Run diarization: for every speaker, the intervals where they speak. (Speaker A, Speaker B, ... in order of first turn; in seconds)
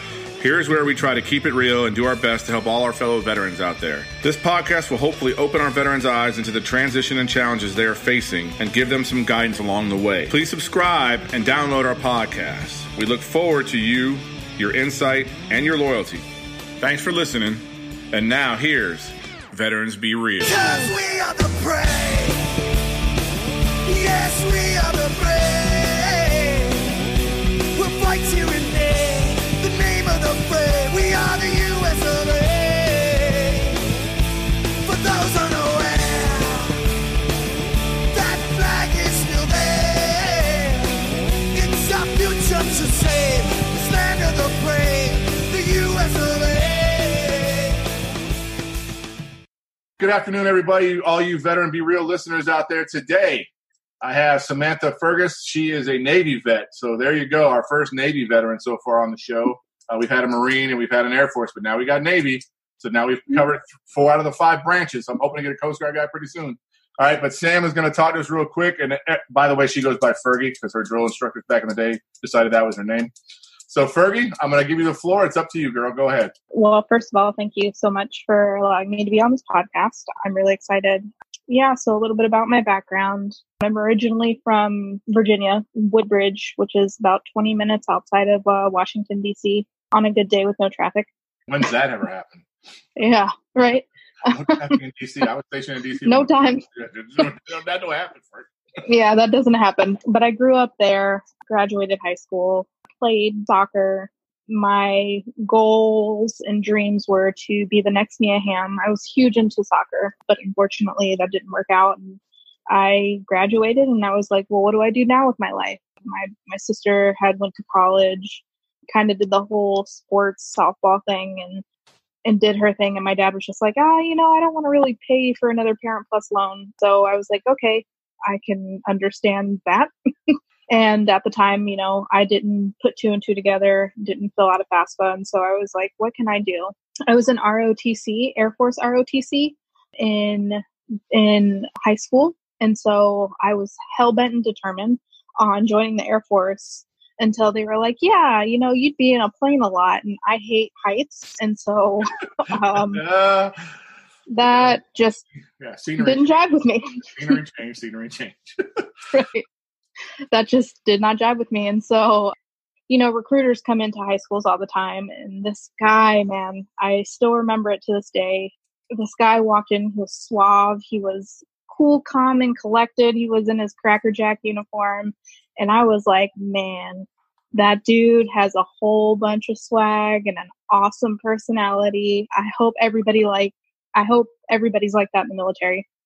Speaker A: 0.4-16.2, 16.8-20.7, 50.0-53.5, 54.0-73.1, 73.7-76.3, 91.5-92.4, 94.2-98.5, 152.7-153.5, 154.4-154.8, 155.6-156.3, 157.1-158.8
Speaker B: 20.4-22.7, 23.8-27.0, 27.7-33.9, 34.8-36.8, 38.1-47.9
Speaker C: 76.5-91.1, 93.0-94.8, 96.0-96.6, 98.8-121.6, 122.2-153.0, 154.3-155.2, 156.0-157.4, 159.1-159.4, 160.3-162.3, 162.9-185.8